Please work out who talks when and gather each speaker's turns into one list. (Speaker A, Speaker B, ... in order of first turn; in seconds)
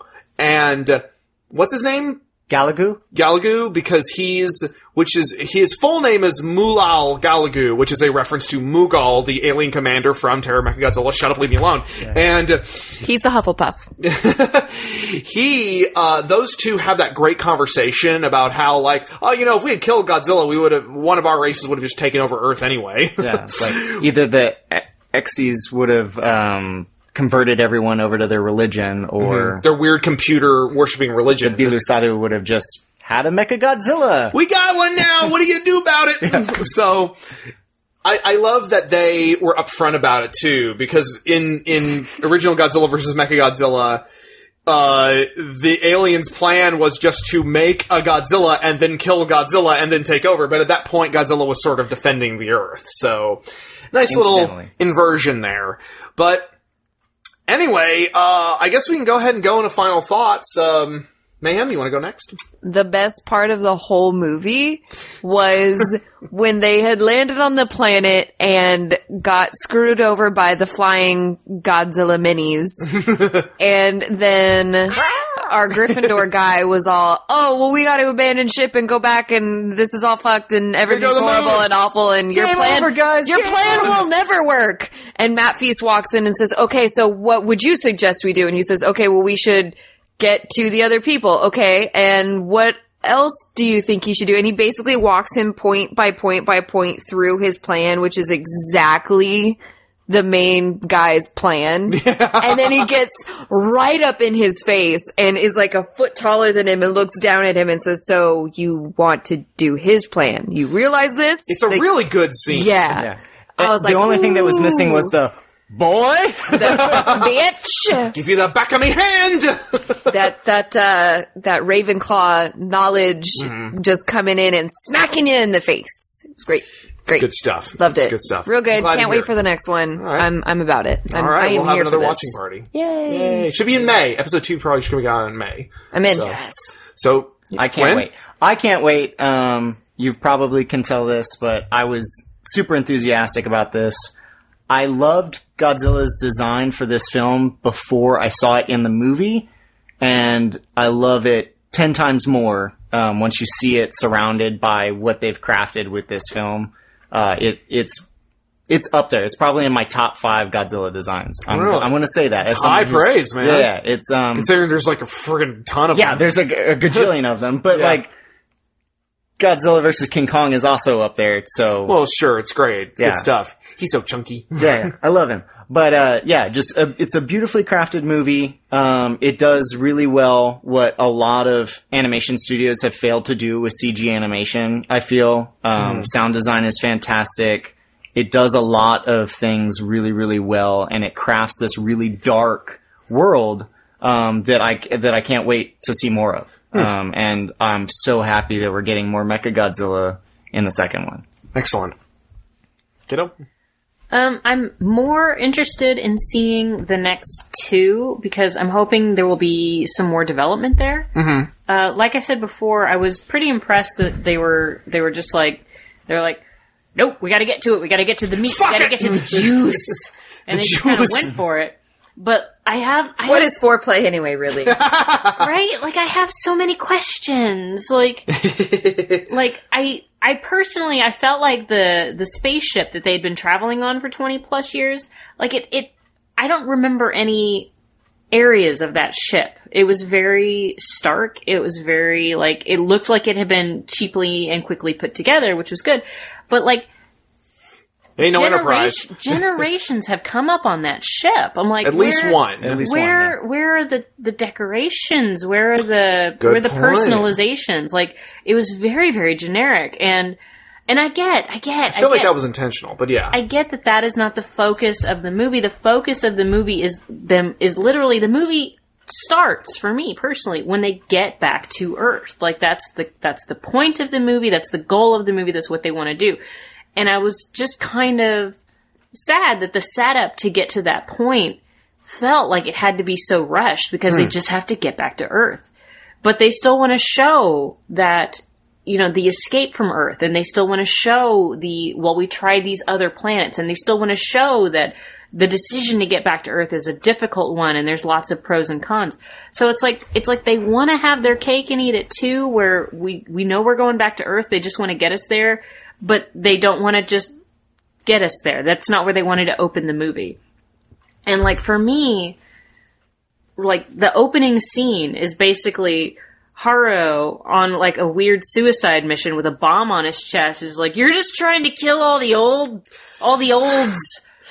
Speaker A: 0.4-2.2, 3.1-13.0, 14.0-24.0, 29.2-31.7, 34.3-37.1, 38.0-44.0, 44.6-56.5, 57.5-62.4, 80.8-81.7, 101.9-102.9, 111.5-112.8, 116.7-117.3, 118.1-120.1, 123.4-123.7, 127.1-129.3, 129.9-130.3, 131.1-136.4, 136.9-138.1, 161.5-163.7, 164.3-166.3, 167.7-168.0, 171.8-174.7, 185.8-186.1, 201.5-201.9, 211.2-211.5, 218.5-219.8, 220.5-221.3, 224.6-225.5, 228.4-229.2, 248.2-249.4, 251.8-252.8, 256.4-257.3, 261.9-263.4
Speaker B: 2.5-3.0, 23.2-29.6, 31.4-34.4, 54.1-54.7, 82.3-84.0, 112.9-117.2, 137.6-144.1, 144.7-149.5, 150.0-158.0, 158.7-164.5, 165.9-168.1, 169.4-172.0, 173.0-173.3, 174.6-201.2, 252.6-253.4
Speaker C: 13.0-13.8, 62.6-111.9, 112.5-115.1, 116.5-118.1, 120.1-133.5, 135.9-136.8, 223.2-224.8
Speaker D: 204.1-211.1, 211.7-216.4, 216.9-223.5, 225.4-228.3, 229.3-237.7, 238.3-246.9, 248.2-262.3, 263.3-276.4, 276.9-278.6, 279.1-285.7, 286.2-307.3, 308.0-310.4, 311.2-312.4, 313.6-324.2